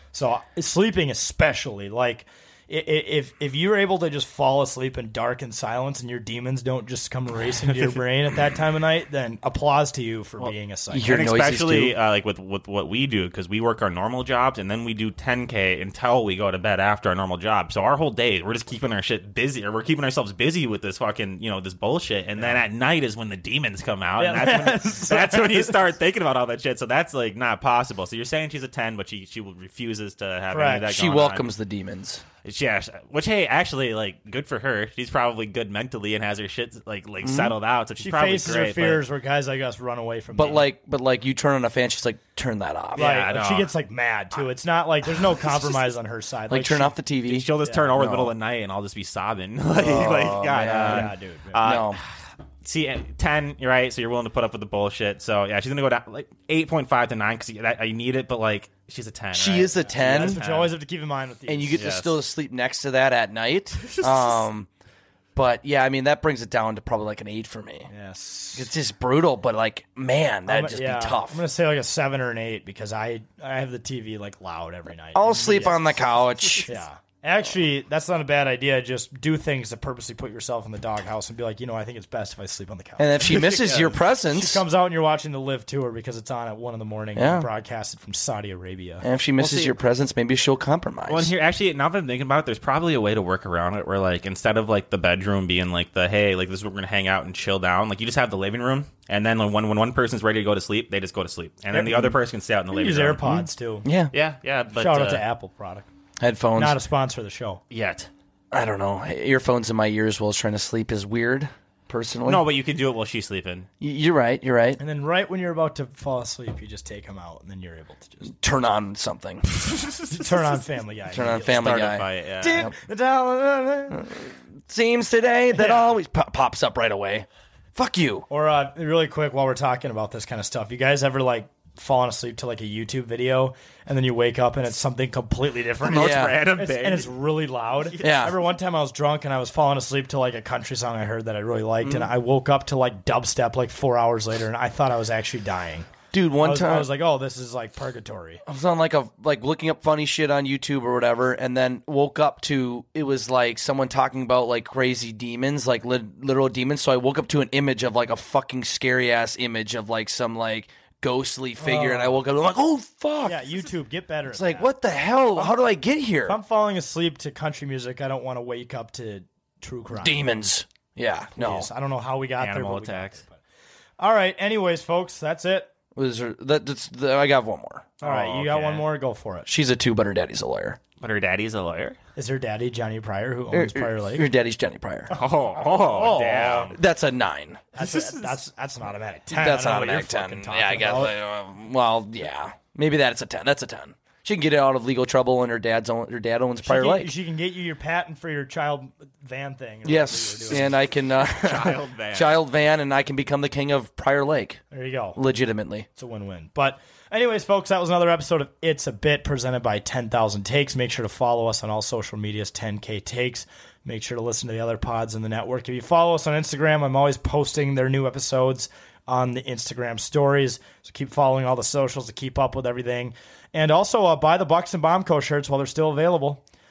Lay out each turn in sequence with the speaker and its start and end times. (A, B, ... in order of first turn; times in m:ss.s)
0:00.1-0:11.1 A
0:10.9-0:11.9 B
0:11.1-0:31.5 C
0:22.4-0:22.6 A
0:24.2-0:25.8 A
0:30.5-0:30.9 A
0:30.9-0:32.2 B
0:32.4-0:39.0 C
0:37.2-0:37.5 B
0:38.0-0:40.7 A
0:40.3-0:43.1 B
0:42.9-0:43.7 C
0:42.9-0:46.9 A
0:46.5-0:48.3 B
0:47.3-1:00.7 C
0:47.6-0:47.9 A
0:49.7-0:52.0 B
0:50.9-0:51.6 A
0:59.3-1:00.4 B
0:59.8-1:01.8 A
1:01.5-1:04.7 B
1:01.7-1:02.2 C
1:03.8-1:04.4 C
1:05.3-1:07.9 B
1:07.9-1:08.7 A
1:08.5-1:11.4 B
1:10.5-1:16.0 A
1:15.1-1:16.7 B
1:16.6-1:23.3 A
1:23.0-1:24.6 B
1:23.2-1:24.0 C
1:24.3-1:29.0 A
1:27.2-1:27.5 B
1:29.0-1:31.3 B
1:29.4-1:29.7 C
1:31.1-1:43.2 C
1:41.7-1:42.1 A
1:42.7-1:43.9 A
1:43.3-1:44.1 B
1:44.1-1:45.2 C
1:44.7-1:45.9 A
1:46.2-1:46.8 B
1:46.5-1:47.6 A
1:47.7-1:48.1 C
1:48.5-1:52.4 B
1:52.2-1:53.7 C
1:53.8-1:54.8 B
1:54.8-1:58.3 A
1:58.3-1:59.4 B
1:59.6-2:00.6 C
2:00.1-2:01.6 A
2:01.1-2:02.7 B
2:01.2-2:02.6 C
2:02.4-2:04.0 A
2:03.9-2:08.3 B
2:05.5-2:06.0 A
2:08.3-2:25.9 A
2:15.8-2:17.1 C
2:15.9-2:16.4 B
2:17.8-2:18.1 C
2:18.0-2:18.4 B
2:21.8-2:22.1 B
2:26.1-2:26.9 B
2:26.4-2:28.4 A
2:28.4-2:43.5 B
2:41.6-2:42.2 A
2:43.2-2:44.7 A
2:44.3-2:46.4 B
2:46.3-2:50.2 A
2:49.9-2:51.7 B
2:51.4-2:53.4 A
2:52.4-2:53.2 C
2:54.0-2:55.7 A
2:56.0-2:57.9 B
2:58.0-2:59.5 A
2:58.0-2:58.9 C
2:59.5-3:00.8 B
3:01.0-3:02.0 C
3:02.2-3:04.2 A
3:03.5-3:05.2 B
3:05.1-3:06.8 C
3:05.7-3:06.7 A
3:06.7-3:07.6 B
3:07.7-3:11.1 A
3:07.8-3:08.4 C
3:09.3-3:17.1 B
3:16.6-3:20.7 A
3:19.8-3:24.6 B
3:21.2-3:22.4 C
3:24.7-3:25.2 A
3:25.2-3:25.9 B
3:26.0-3:46.4 A